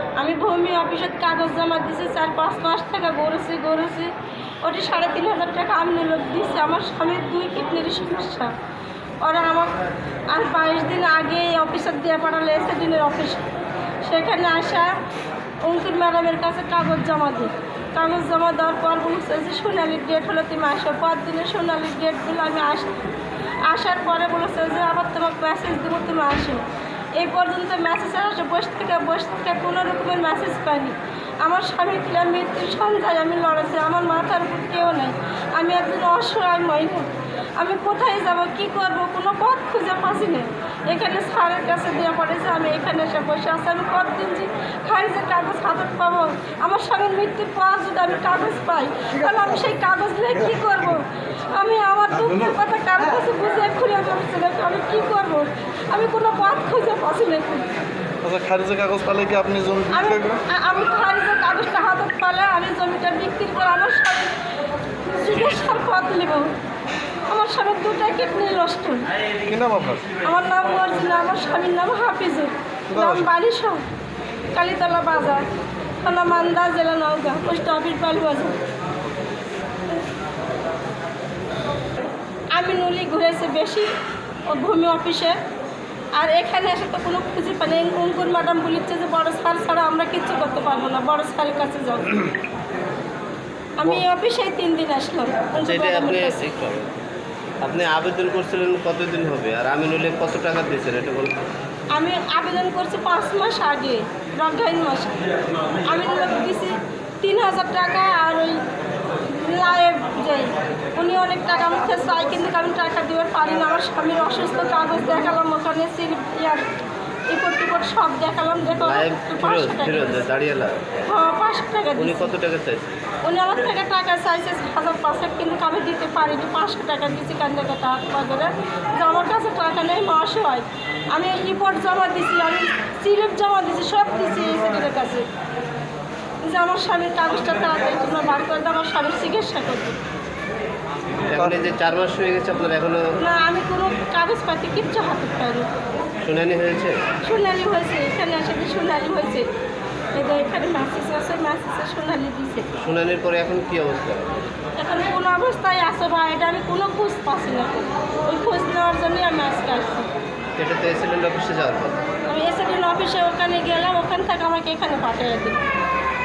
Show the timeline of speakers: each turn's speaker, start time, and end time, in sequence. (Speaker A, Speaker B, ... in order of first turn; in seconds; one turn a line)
Speaker A: 0.2-8.5
Speaker A: 9.2-13.5
Speaker A: 14.0-15.0
Speaker A: 15.6-23.0
Speaker A: 23.6-26.6
Speaker A: 27.1-57.7
Speaker B: 58.2-60.4
Speaker A: 59.9-64.4
Speaker A: 65.0-66.6
Speaker A: 67.3-69.1
Speaker B: 69.5-70.1
Speaker A: 70.2-73.8
Speaker B: 72.9-73.3
Speaker A: 74.5-75.5
Speaker A: 76.0-78.6
Speaker A: 82.5-83.9
Speaker A: 84.5-85.4
Speaker A: 86.2-92.2
Speaker A: 93.8-96.4
Speaker C: 95.6-97.0
Speaker C: 97.6-101.5
Speaker A: 101.9-105.2
Speaker A: 105.8-108.6
Speaker A: 109.2-116.7
Speaker A: 117.3-120.2
Speaker C: 118.8-120.9
Speaker A: 121.1-122.3
Speaker C: 122.0-122.9
Speaker A: 123.2-135.3
Speaker A: 136.4-140.0
Speaker C: 141.3-143.1
Speaker A: 143.2-145.7
Speaker C: 146.2-147.0
Speaker A: 147.2-149.5
Speaker A: 150.1-152.7
Speaker C: 152.8-154.4
Speaker A: 154.8-160.1
Speaker C: 160.6-162.0
Speaker A: 162.3-165.6